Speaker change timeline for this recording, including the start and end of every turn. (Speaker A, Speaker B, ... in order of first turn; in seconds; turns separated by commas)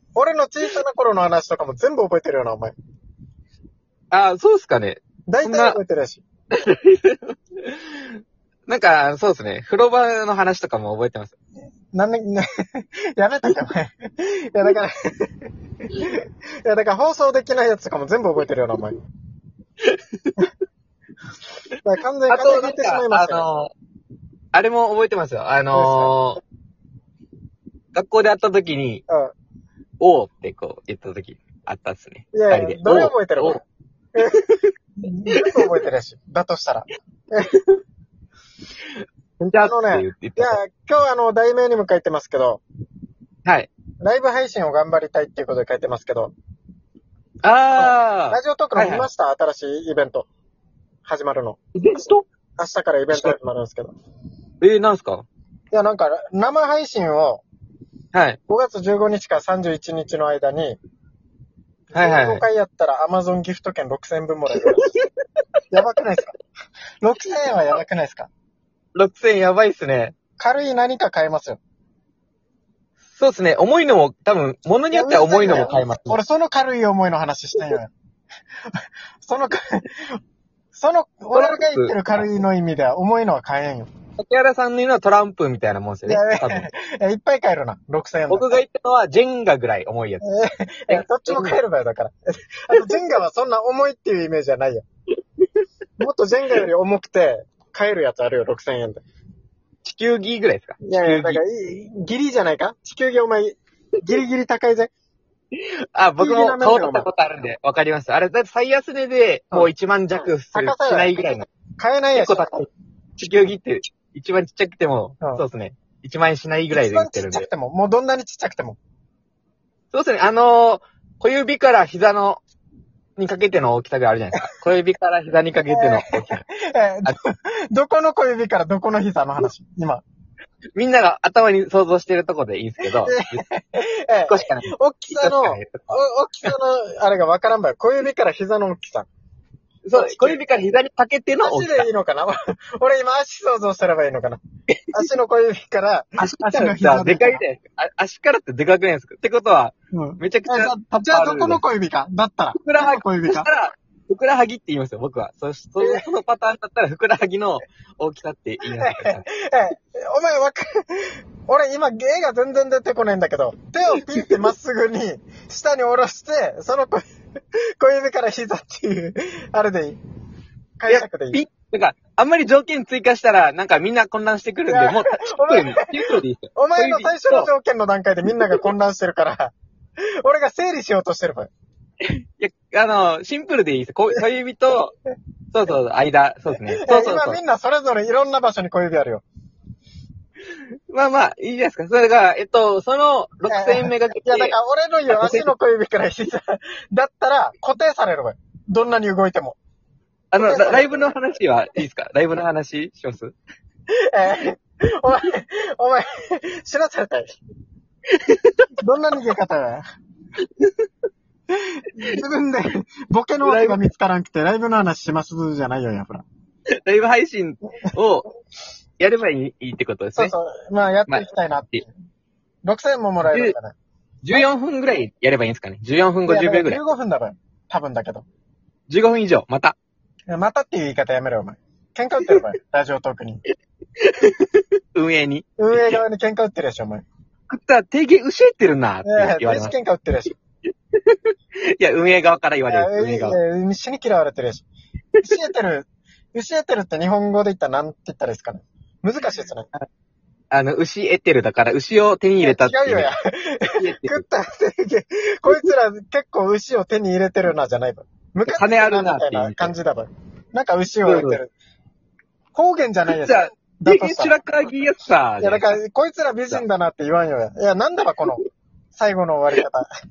Speaker A: 0.1-2.7, Speaker B: 4.1-5.8, Speaker A: 5.3-6.2, Speaker B: 6.5-11.3, Speaker A: 11.9-18.9, Speaker B: 19.8-20.5, Speaker A: 21.8-23.4, Speaker B: 22.3-23.7, Speaker B: 24.5-26.4, Speaker A: 25.7-26.1, Speaker B: 27.9-29.0, Speaker A: 29.1-29.3, Speaker B: 30.0-33.6, Speaker A: 32.3-33.6, Speaker A: 34.1-34.4, Speaker B: 34.3-34.6, Speaker A: 35.0-37.8, Speaker B: 35.3-35.7, Speaker B: 39.4-40.6, Speaker A: 39.6-42.6, Speaker A: 44.0-46.3, Speaker B: 47.4-49.1, Speaker A: 47.7-50.3, Speaker A: 51.0-51.6, Speaker B: 51.8-52.2, Speaker A: 52.6-53.9, Speaker B: 54.6-55.2, Speaker A: 55.7-57.4, Speaker B: 58.1-58.4, Speaker A: 58.5-60.8, Speaker A: 61.9-65.0, Speaker B: 61.9-62.4, Speaker A: 65.7-66.3, Speaker A: 67.0-68.3, Speaker B: 68.9-70.1, Speaker A: 70.4-71.6, Speaker B: 73.2-76.2, Speaker A: 74.9-77.9, Speaker A: 79.2-80.2, Speaker A: 80.7-83.9, Speaker B: 81.3-82.2, Speaker B: 84.2-86.7, Speaker A: 86.0-88.6, Speaker B: 88.3-90.2, Speaker A: 90.2-94.8, Speaker B: 90.9-91.6, Speaker B: 92.7-93.0, Speaker A: 96.0-99.0, Speaker B: 99.8-101.4, Speaker A: 100.8-104.9, Speaker B: 105.5-111.5, Speaker A: 106.2-107.1, Speaker A: 109.5-112.5, Speaker B: 112.1-117.5, Speaker A: 116.7-118.8, Speaker B: 119.9-122.4, Speaker B: 123.2-126.4, Speaker A: 125.7-130.0, Speaker B: 130.8-133.4, Speaker A: 133.0-139.1, Speaker B: 134.3-135.9, Speaker B: 139.8-141.9, Speaker A: 139.9-140.4, Speaker A: 141.4-144.4, Speaker A: 144.9-147.4, Speaker B: 146.2-151.6, Speaker A: 149.9-153.5, Speaker B: 152.6-159.2, Speaker A: 158.7-167.0, Speaker A: 167.5-170.0, Speaker A: 170.8-171.4, Speaker B: 170.9-177.5, Speaker A: 174.7-179.5, Speaker A: 180.2-181.5, Speaker B: 182.0-184.9, Speaker B: 185.5-187.4, Speaker A: 186.7-189.2, Speaker B: 190.9-194.5, Speaker A: 193.5-199.6, Speaker B: 195.1-195.5, Speaker B: 200.3-203.3, Speaker A: 200.3-201.1, Speaker A: 204.0-207.3, Speaker B: 208.1-208.7, Speaker A: 208.8-209.8, Speaker A: 211.6-216.2, Speaker B: 213.4-213.8, Speaker B: 216.8-218.3, Speaker B: 219.0-220.3, Speaker A: 220.2-221.9, Speaker B: 221.1-221.8, Speaker A: 222.6-223.7, Speaker B: 223.3-223.5, Speaker B: 224.2-226.8, Speaker A: 226.3-228.2, Speaker B: 228.9-229.8, Speaker A: 230.3-233.4, Speaker B: 234.0-236.0, Speaker A: 235.6-237.0, Speaker B: 237.5-239.7, Speaker A: 239.0-240.3, Speaker B: 240.9-243.4, Speaker A: 242.7-244.7, Speaker A: 245.2-249.7, Speaker B: 250.5-253.1, Speaker A: 252.4-261.5, Speaker B: 253.7-254.2, Speaker B: 258.4-259.7, Speaker B: 261.1-261.4, Speaker A: 262.5-264.4, Speaker B: 263.2-265.8, Speaker A: 265.4-268.4, Speaker A: 268.9-269.9